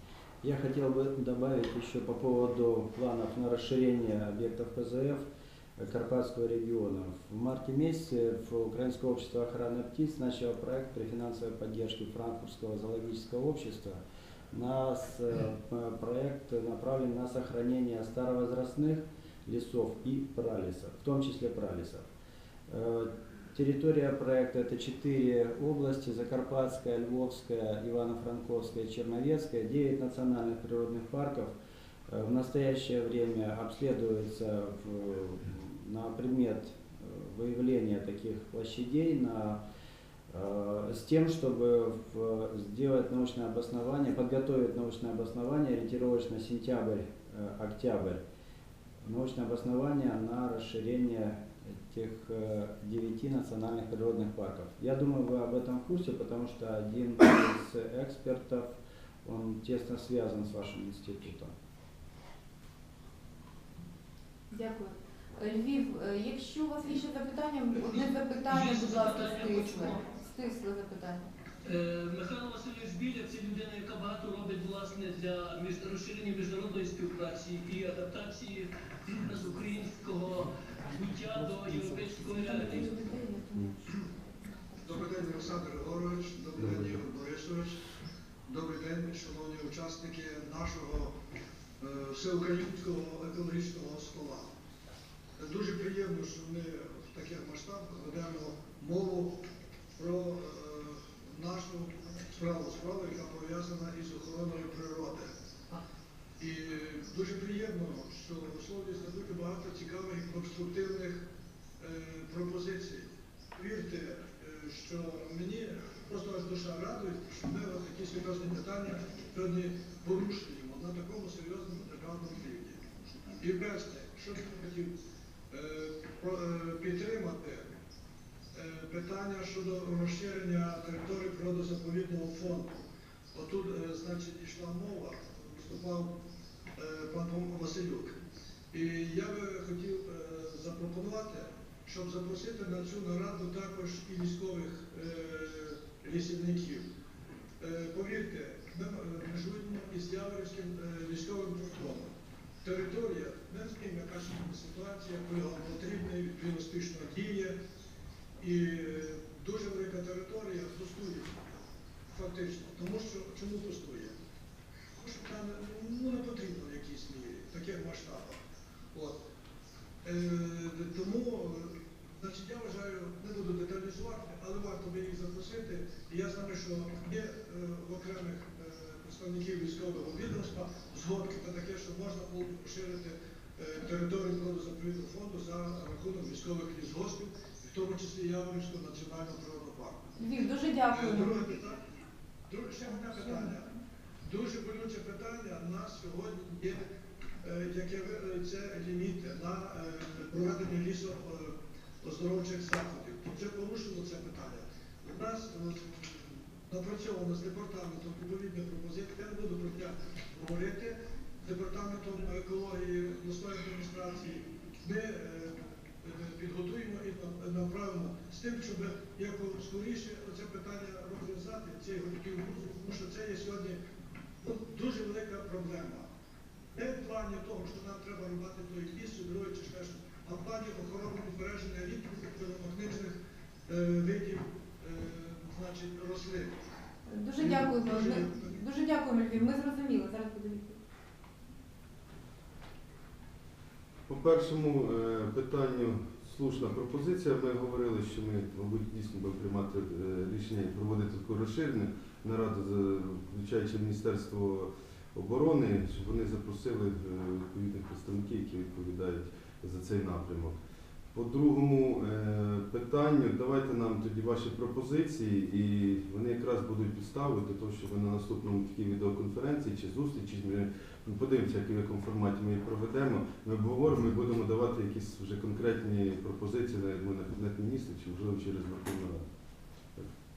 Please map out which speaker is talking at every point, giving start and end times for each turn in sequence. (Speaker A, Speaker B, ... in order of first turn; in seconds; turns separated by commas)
Speaker A: 0.4-5.2, Speaker A: 5.8-14.0, Speaker A: 14.5-22.1, Speaker A: 22.7-31.5, Speaker A: 32.1-39.6, Speaker A: 40.3-48.2, Speaker A: 49.0-61.5, Speaker B: 64.5-71.3, Speaker C: 67.9-70.0, Speaker C: 71.6-83.0, Speaker B: 82.4-83.9, Speaker B: 84.5-84.8, Speaker D: 84.8-87.8, Speaker E: 86.6-86.9, Speaker D: 88.5-91.1, Speaker D: 91.8-94.5, Speaker D: 95.4-99.4, Speaker D: 100.0-105.3, Speaker D: 106.4-111.2, Speaker D: 111.8-122.8, Speaker D: 123.4-124.9, Speaker D: 125.5-127.7, Speaker D: 128.5-132.8, Speaker D: 133.3-136.2, Speaker D: 136.8-138.2, Speaker D: 138.7-146.9, Speaker D: 147.6-152.1, Speaker D: 152.6-157.6, Speaker D: 158.4-161.4, Speaker D: 162.1-164.1, Speaker D: 165.0-168.4, Speaker D: 170.0-190.0, Speaker B: 190.2-191.4, Speaker D: 190.9-191.8, Speaker D: 192.5-193.7, Speaker B: 193.1-193.5, Speaker D: 194.2-196.8, Speaker D: 197.4-223.8, Speaker D: 224.4-226.1, Speaker D: 226.8-233.2, Speaker D: 233.7-236.6, Speaker B: 237.1-240.8, Speaker D: 237.4-238.6, Speaker E: 244.1-260.6, Speaker E: 261.1-279.2